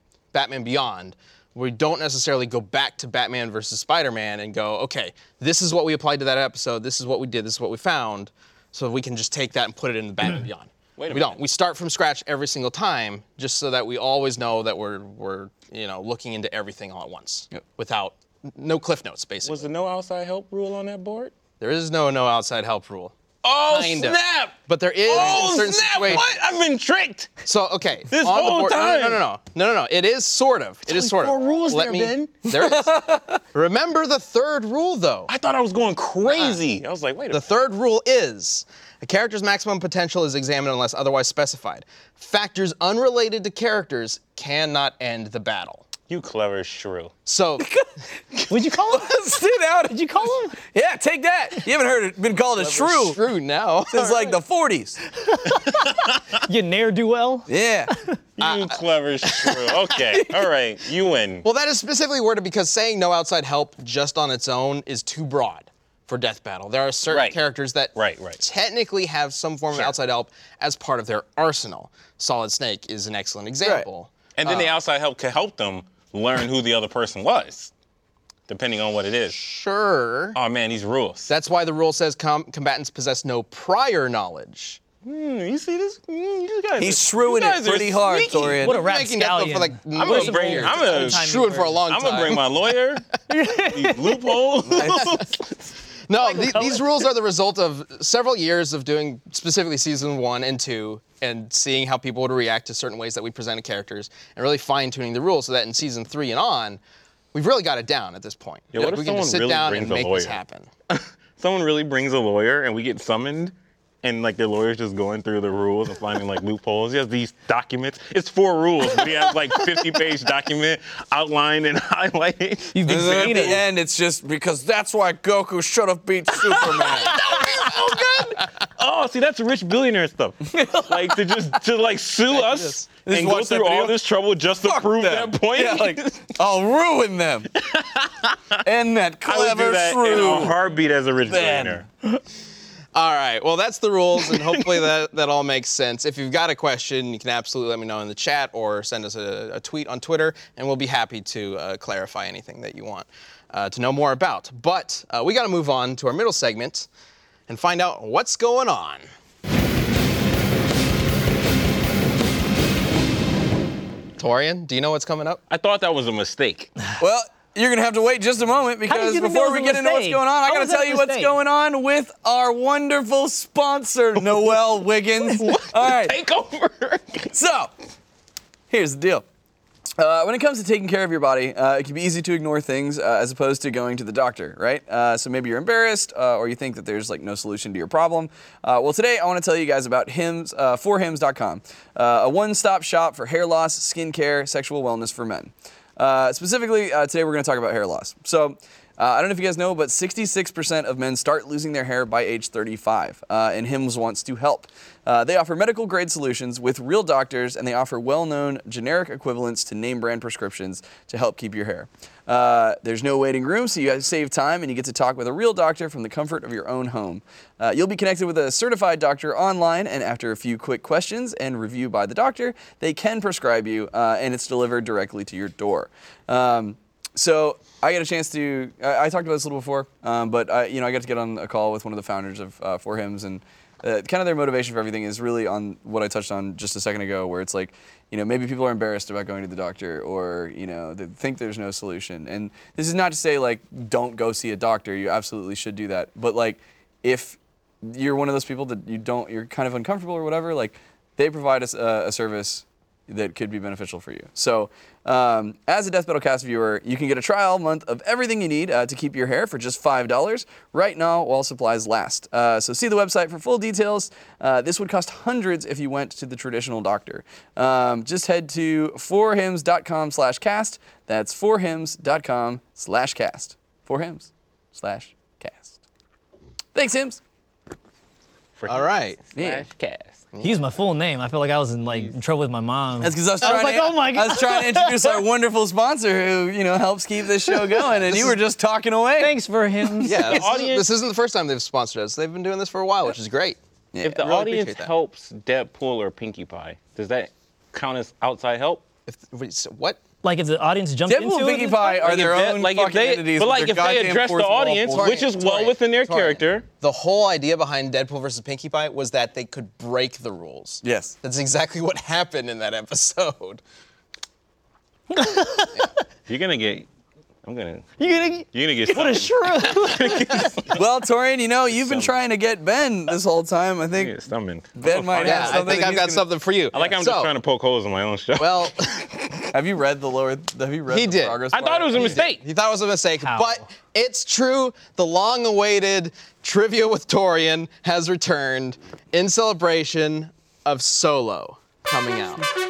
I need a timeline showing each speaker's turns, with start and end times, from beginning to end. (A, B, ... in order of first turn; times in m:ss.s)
0:00.3-0:19.7 A
0:11.0-0:11.4 B
0:19.4-0:21.3 B
0:21.6-0:23.1 A
0:23.4-0:27.3 B
0:23.7-0:26.3 A
0:27.4-0:33.0 A
0:28.1-0:29.2 B
0:30.9-0:32.3 B
0:32.5-0:33.4 C
0:33.5-0:35.3 A
0:35.3-0:37.5 B
0:36.2-0:36.6 A
0:37.3-0:45.8 A
0:46.1-0:47.1 B
0:47.2-0:47.7 A
0:47.6-0:53.2 C
0:48.5-0:49.2 D
0:49.9-0:50.6 D
0:52.6-0:54.4 A
0:53.9-0:55.0 C
0:55.2-0:58.2 D
0:57.5-0:57.9 C
0:58.4-1:01.4 B
0:58.4-0:59.9 A
1:00.1-1:00.4 C
1:01.4-1:14.7 A
1:07.1-1:07.4 B
1:07.9-1:08.4 B
1:14.4-1:17.7 B
1:18.5-1:19.4 B
1:19.3-1:20.4 A
1:20.3-1:21.3 B
1:21.3-1:24.8 A
1:25.0-1:28.6 B
1:26.8-1:28.8 C
1:28.6-1:31.8 D
1:28.6-1:32.5 A
1:30.0-1:31.3 B
1:31.9-1:35.7 B
1:33.3-1:34.5 D
1:34.7-1:35.1 C
1:34.7-1:35.2 A
1:36.1-1:46.8 A
1:36.2-1:36.9 D
1:47.3-1:50.7 A
1:48.7-1:50.4 B
1:50.9-2:03.5 B
2:02.7-2:03.6 D
2:02.8-2:07.2 C
2:06.4-2:16.3 B
2:10.5-2:11.5 C
2:12.3-2:12.9 A
2:13.0-2:14.0 C
2:14.6-2:17.5 C
2:17.6-2:18.6 B
2:18.6-2:20.6 C
2:19.2-2:21.8 B
2:21.2-2:21.8 C
2:22.9-2:36.9 A
2:24.3-2:24.8 B
2:37.5-2:39.0 A
2:44.2-2:45.4 A
2:45.5-2:46.7 B
2:47.0-2:56.2 C
2:48.9-2:51.3 D
2:55.4-2:57.3 B
2:57.3-2:57.7 C
2:58.7-2:59.2 C
3:00.0-4:35.8 C
4:36.7-4:37.2 C
4:38.6-4:40.2 B
4:38.7-4:39.2 A
4:39.4-4:39.6 C
4:40.4-4:45.2 D
4:43.0-4:50.1 C
4:48.0-4:48.4 A
4:49.2-4:50.6 D
4:50.0-4:53.6 A
4:50.1-4:50.8 B
4:53.9-4:54.2 C
4:54.0-4:58.8 B
4:54.2-4:54.9 A
4:59.1-5:00.0 A
5:00.2-5:02.1 D
5:01.1-5:05.2 C
5:02.0-5:06.6 B
5:04.9-5:13.6 A
5:10.8-5:11.1 C
5:15.1-5:15.9 D
5:16.3-5:16.9 B
5:17.4-5:20.8 B
5:18.0-5:20.6 D
5:20.7-5:24.1 C
5:21.7-5:22.1 B
5:23.9-5:25.8 B
5:24.8-5:26.2 C
5:25.2-5:27.3 A
5:26.7-5:28.9 B
5:28.4-5:29.1 A
5:29.5-5:32.2 C
5:30.9-5:31.4 A
5:31.5-5:32.4 B
5:31.9-5:42.4 A
5:33.2-5:33.6 D